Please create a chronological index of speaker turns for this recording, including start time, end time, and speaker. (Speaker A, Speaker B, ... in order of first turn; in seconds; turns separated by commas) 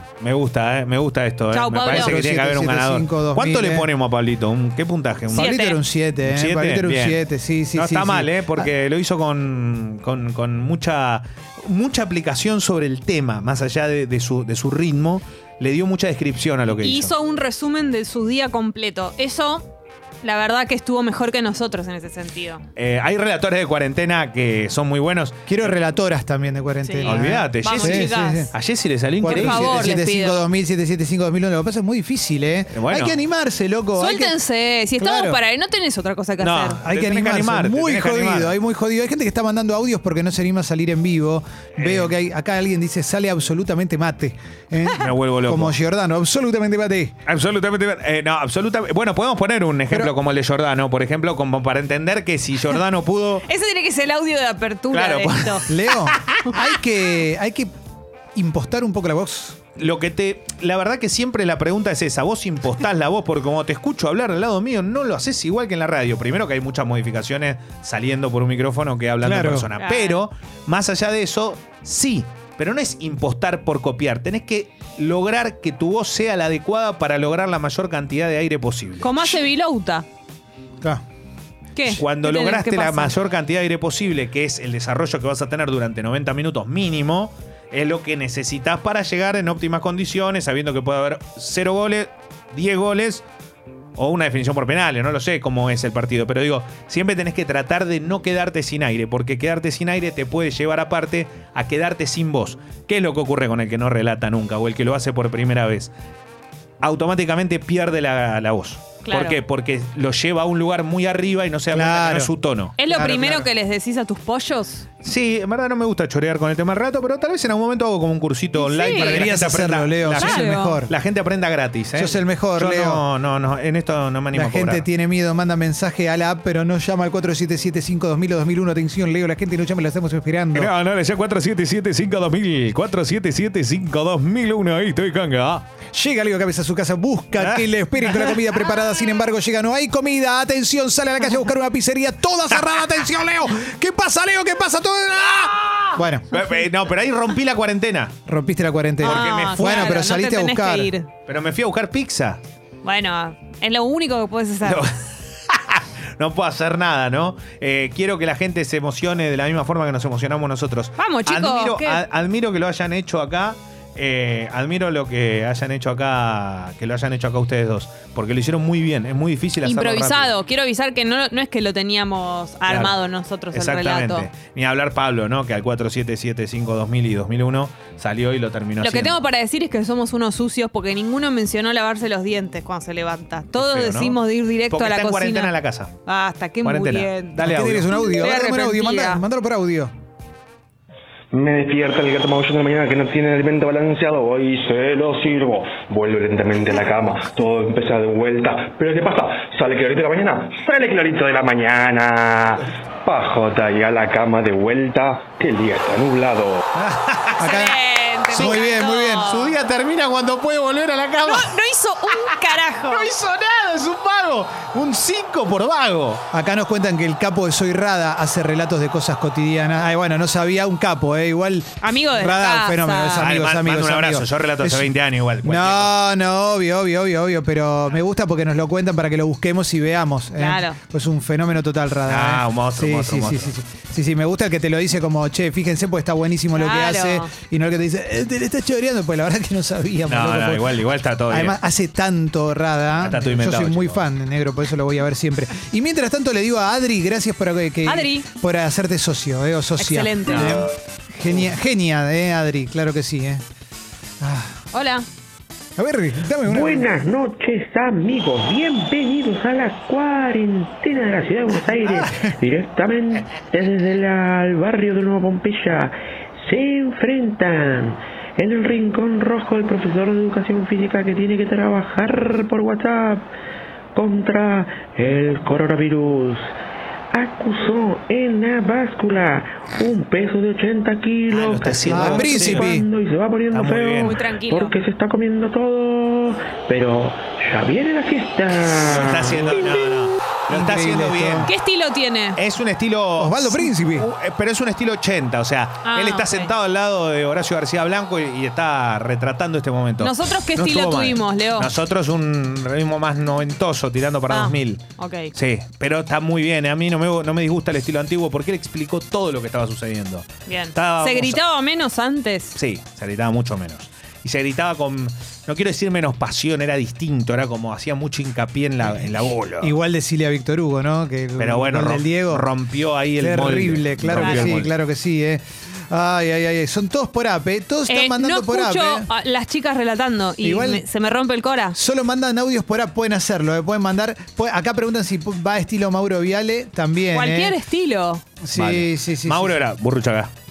Speaker A: 0.2-5.5, Speaker B: 1.5-2.1, Speaker C: 1.9-3.9, Speaker B: 5.3-5.8, Speaker C: 5.3-8.7, Speaker A: 6.2-7.2, Speaker A: 7.7-17.1, Speaker B: 16.8-19.7, Speaker B: 20.2-22.6, Speaker A: 22.8-25.6, Speaker C: 25.5-28.5, Speaker B: 26.8-28.5, Speaker A: 27.1-29.9, Speaker C: 29.2-34.4, Speaker B: 29.3-30.4, Speaker A: 32.7-33.1, Speaker B: 34.0-36.8, Speaker C: 35.0-35.4, Speaker A: 36.4-38.5, Speaker C: 36.8-47.2, Speaker A: 41.8-42.1, Speaker A: 45.0-45.8, Speaker A: 47.3-53.5, Speaker B: 53.5-55.6, Speaker A: 54.9-56.5, Speaker C: 55.7-57.7, Speaker C: 58.4-59.6, Speaker A: 59.8-79.3, Speaker C: 69.2-69.7, Speaker B: 69.8-70.2, Speaker B: 79.0-80.0, Speaker B: 81.8-83.1, Speaker A: 82.0-93.2, Speaker A: 94.0-105.9, Speaker A: 106.8-112.8, Speaker B: 109.0-109.4, Speaker C: 111.7-112.3, Speaker B: 112.8-114.8, Speaker C: 112.8-113.5, Speaker A: 115.0-124.8, Speaker B: 118.6-119.3, Speaker C: 119.0-120.9, Speaker B: 120.2-120.8, Speaker C: 122.0-123.0, Speaker C: 124.3-130.7, Speaker A: 130.5-135.7, Speaker C: 135.9-146.4, Speaker A: 137.4-138.4, Speaker A: 145.4-148.2, Speaker C: 148.3-150.9, Speaker A: 149.0-150.0, Speaker B: 149.0-151.1, Speaker A: 151.3-152.4, Speaker B: 152.8-154.9, Speaker A: 154.6-170.3, Speaker B: 161.0-162.0, Speaker B: 169.6-174.3, Speaker A: 172.7-173.0, Speaker A: 173.5-179.2, Speaker B: 178.8-185.5, Speaker A: 183.6-184.2, Speaker A: 184.7-185.9, Speaker B: 186.1-187.4, Speaker A: 186.6-187.9, Speaker C: 187.4-189.9, Speaker B: 188.0-189.2, Speaker D: 191.3-206.6, Speaker A: 206.8-207.4, Speaker C: 207.4-207.8, Speaker B: 207.4-209.5, Speaker C: 208.3-209.4, Speaker A: 208.4-208.6, Speaker A: 209.2-211.6, Speaker B: 211.2-213.1, Speaker A: 212.8-216.2, Speaker C: 216.3-224.9, Speaker B: 221.8-223.3, Speaker A: 223.2-226.0, Speaker C: 225.4-253.4, Speaker B: 230.4-230.8, Speaker A: 232.1-233.5, Speaker B: 236.6-237.3, Speaker A: 240.1-241.6, Speaker A: 243.0-244.0, Speaker B: 247.9-248.3, Speaker B: 249.8-250.5, Speaker A: 250.3-250.7, Speaker C: 254.2-254.6, Speaker B: 254.7-255.1, Speaker C: 255.8-256.9, Speaker E: 256.4-273.3, Speaker E: 273.9-276.5, Speaker E: 277.1-289.9, Speaker A: 281.3-282.7, Speaker C: 281.9-282.9, Speaker A: 283.5-284.1, Speaker B: 284.0-284.8, Speaker A: 288.8-291.5, Speaker C: 290.5-291.5, Speaker B: 291.5-292.4, Speaker A: 292.4-304.8, Speaker C: 293.2-294.1, Speaker B: 295.9-296.5, Speaker B: 300.0-301.7, Speaker B: 304.3-305.3, Speaker A: 305.3-311.4, Speaker B: 310.5-312.6, Speaker A: 312.6-319.7, Speaker C: 319.6-322.5, Speaker A: 321.4-324.7, Speaker C: 323.2-329.1, Speaker B: 324.2-324.5, Speaker B: 327.9-331.8, Speaker C: 330.4-330.8, Speaker C: 331.8-337.6, Speaker B: 337.1-338.2, Speaker C: 338.4-339.6, Speaker A: 338.5-340.3